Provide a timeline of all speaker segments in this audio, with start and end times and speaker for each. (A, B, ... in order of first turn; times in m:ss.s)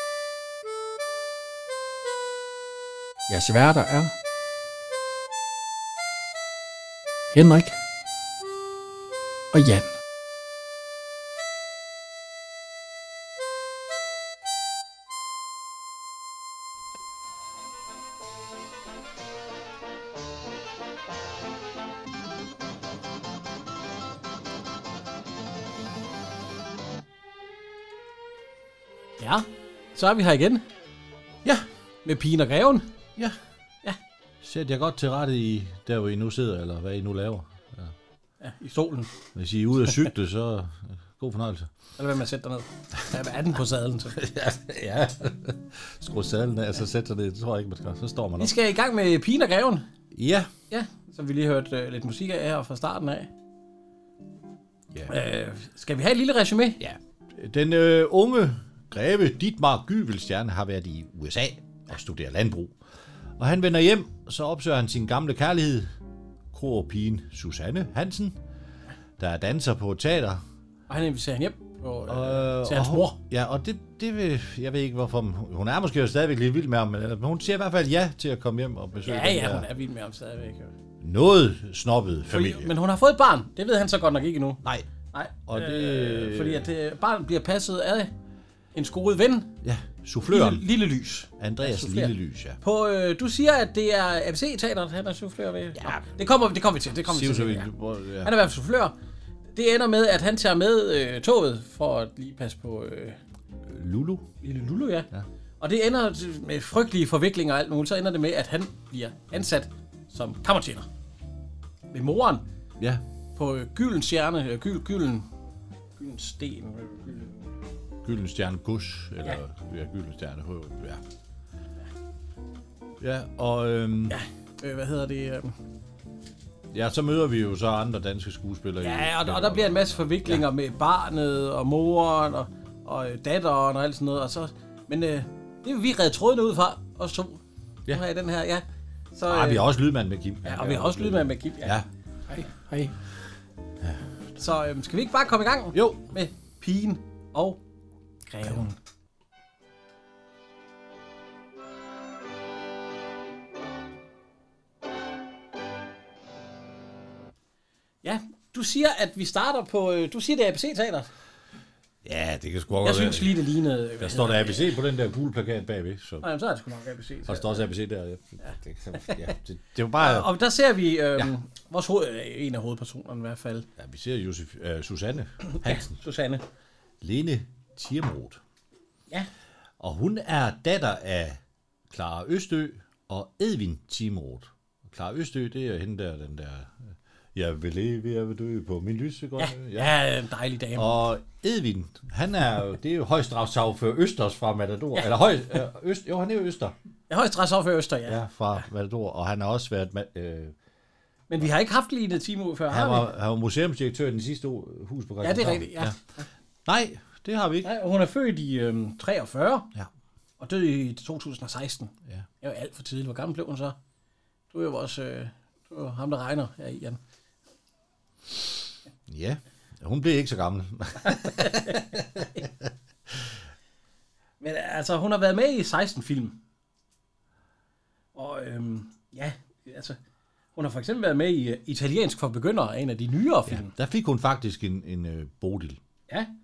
0:03.3-0:04.2 A
0:07.3-0:07.8 A
0:09.5-0:09.9 A
0:29.2-0:30.7 B
0:32.0-0:32.9 B
0:34.4-0:37.9 C
0:38.4-0:39.2 B
0:39.4-0:41.7 C
0:42.0-0:44.2 B
0:44.2-0:48.6 C
0:48.4-0:49.9 B
0:50.1-0:50.5 C
0:50.7-0:53.3 B
0:55.1-0:56.8 B
0:56.8-1:02.8 C
1:03.4-1:05.9 C
1:06.5-1:08.4 C
1:09.2-1:10.4 C
1:10.9-1:13.2 B
1:12.1-1:19.7 C
1:19.1-1:20.7 B
1:21.0-1:22.7 C
1:22.3-1:24.6 B
1:24.6-1:24.9 C
1:25.1-1:28.1 B
1:25.5-1:26.7 C
1:28.8-1:29.6 B
1:29.6-1:30.6 C
1:30.2-1:37.7 B
1:31.4-1:32.6 C
1:35.8-1:36.1 C
1:37.0-1:38.5 C
1:38.2-1:39.0 B
1:39.6-1:43.2 B
1:43.7-1:44.3 C
1:44.4-1:45.1 B
1:45.6-1:50.9 B
1:51.9-1:52.5 B
1:52.8-1:53.0 C
1:53.4-1:55.3 B
1:56.0-1:57.5 B
1:58.0-2:01.0 C
2:03.0-2:04.2 C
2:04.1-2:05.6 B
2:06.7-2:10.5 C
2:08.8-2:19.7 B
2:19.3-2:21.9 C
2:20.4-2:21.8 B
2:22.6-2:22.9 A
2:24.4-2:27.6 B
2:25.7-2:26.0 C
2:28.3-2:28.8 B
2:38.0-2:41.1 B
2:42.0-2:43.4 C
2:42.8-2:44.8 B
2:44.0-2:46.3 C
2:46.2-2:47.6 B
2:47.3-2:50.3 C
2:49.1-2:49.3 B
2:50.0-2:53.7 B
2:53.8-2:56.0 C
2:55.5-2:56.4 B
2:57.0-2:58.4 C
2:59.8-3:09.9 C
3:09.4-3:10.9 B
3:10.8-3:16.8 C
3:17.1-3:18.2 B
3:18.1-3:20.6 C
3:21.3-3:23.1 B
3:22.7-3:26.0 C
3:25.2-3:26.3 B
3:26.7-3:27.7 C
3:27.6-3:29.7 B
3:30.4-3:33.8 B
3:34.5-3:37.0 B
3:39.1-3:42.7 C
3:41.0-3:42.4 B
3:44.4-3:46.4 B
3:48.2-3:50.0 B
3:50.6-3:53.7 B
3:53.5-3:55.8 C